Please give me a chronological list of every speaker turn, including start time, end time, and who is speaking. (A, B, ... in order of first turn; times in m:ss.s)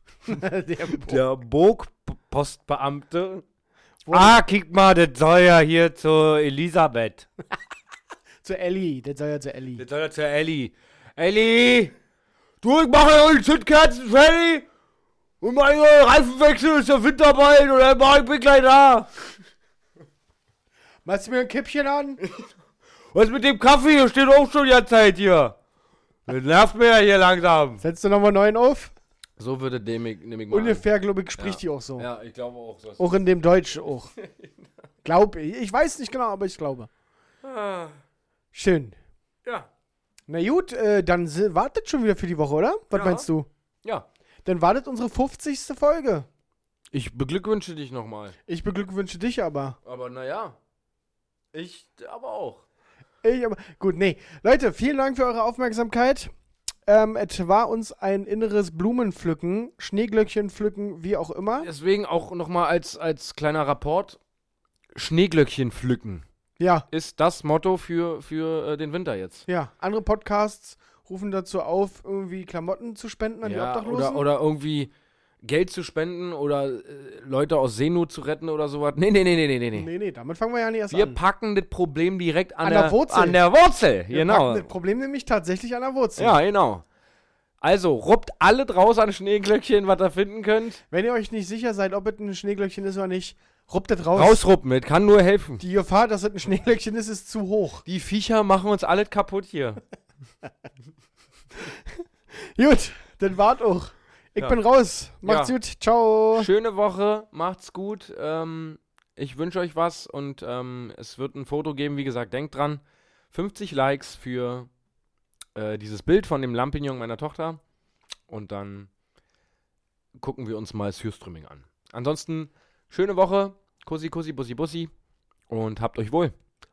0:00.3-0:01.2 A
0:00.8-0:03.4 B
0:04.0-0:04.4 A
0:04.1-0:07.3 B
0:08.4-0:09.8 A
0:09.8-0:11.9 B
0:12.6-0:14.7 B
0:15.4-0:19.1 B
0:21.0-0:22.2 A
0:22.2-0:22.5 B
0:23.1-0:25.6 B
0:26.3-0:27.8 B
0:27.8-0:28.9 A
0:29.4-0:30.8 B
0:30.5-0:32.1 A
0:31.4-0:33.1 B
0:33.0-0:34.1 A
0:34.2-0:34.6 B
0:35.0-0:36.9 A
0:37.4-0:38.0 B
0:38.5-0:39.0 A
0:39.4-0:39.7 B
0:40.3-0:43.5 A
0:42.9-0:43.3 B
0:43.8-0:44.1 B
0:44.4-0:46.3 A
0:46.9-0:48.4 B
0:48.5-0:49.8 A
0:49.8-0:50.6 B
0:51.5-0:52.6 B
0:53.2-0:56.3 A
0:56.9-1:01.7 A
1:01.6-1:04.2 B
1:04.9-1:06.2 B
1:06.6-1:06.9 A
1:06.9-1:09.5 B
1:09.5-1:14.2 A
1:13.4-1:19.9 B
1:19.7-1:21.2 A
1:20.9-1:24.7 B
1:22.6-1:23.4 A
1:24.1-1:26.4 A
1:26.2-1:26.8 B
1:27.6-1:30.8 B
1:30.9-1:34.4 A
1:34.1-1:35.6 B
1:35.6-1:37.8 A
1:37.8-1:39.8 B
1:41.6-1:46.5 A
1:45.2-1:45.5 B
1:46.3-1:54.7 B
1:55.5-1:57.6 B
1:58.3-1:58.9 B
2:00.2-2:04.9 B
2:05.5-2:06.3 B